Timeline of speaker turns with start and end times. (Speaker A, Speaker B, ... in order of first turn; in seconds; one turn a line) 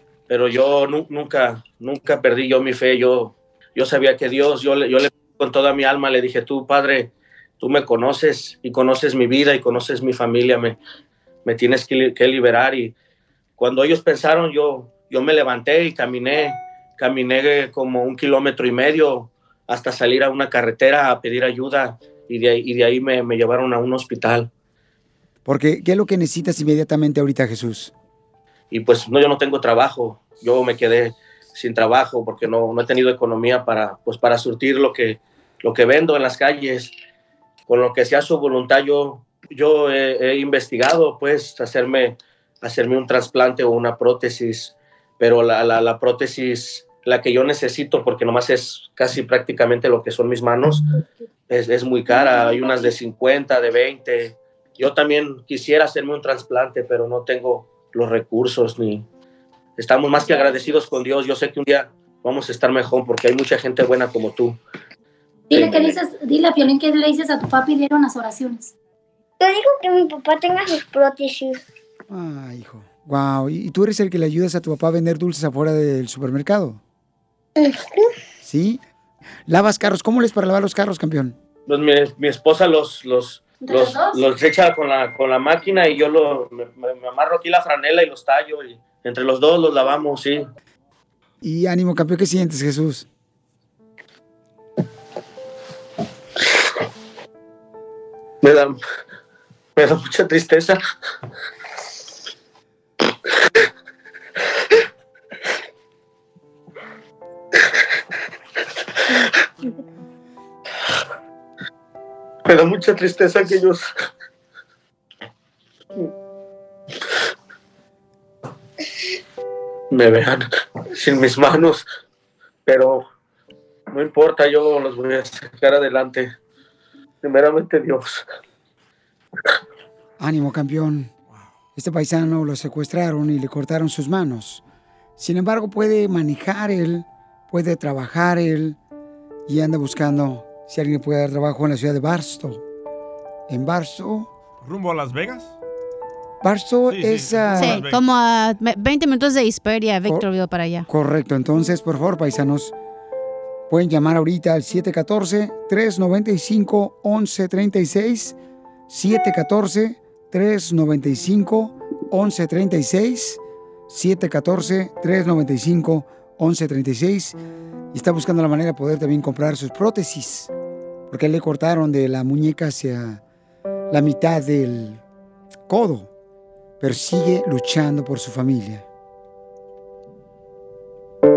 Speaker A: 0.3-10.8
Speaker A: 11.4-12.9
Speaker A: 13.6-24.5
Speaker B: 25.5-27.9
Speaker A: 28.7-36.9
Speaker A: 37.7-50.8
Speaker A: 51.5-59.0
Speaker C: 52.5-52.8
Speaker A: 59.8-64.6
Speaker C: 60.3-60.6
Speaker C: 65.5-68.7
Speaker A: 65.5-66.0
Speaker D: 69.4-71.5
Speaker B: 72.1-76.8
Speaker B: 78.4-78.8
Speaker B: 79.5-81.4
Speaker A: 81.7-90.5
Speaker C: 83.6-84.2
Speaker B: 91.4-93.1
Speaker A: 98.4-98.8
Speaker A: 99.8-100.8
Speaker A: 112.5-113.9
Speaker A: 119.9-120.5
Speaker A: 121.0-121.9
Speaker A: 122.7-123.0
Speaker A: 123.9-126.3
Speaker A: 127.2-128.2
Speaker B: 130.2-131.1
Speaker B: 131.8-134.6
Speaker B: 135.2-138.8
Speaker B: 139.5-142.6
Speaker B: 143.5-144.3
Speaker E: 144.6-145.5
Speaker B: 146.4-147.8
Speaker E: 146.9-148.0
Speaker F: 147.6-150.9
Speaker B: 150.9-152.7
Speaker B: 153.7-158.3
Speaker B: 158.9-167.4
Speaker B: 167.9-170.5
Speaker B: 171.1-173.2
Speaker B: 173.9-175.0
Speaker B: 175.7-176.1
Speaker B: 176.8-178.8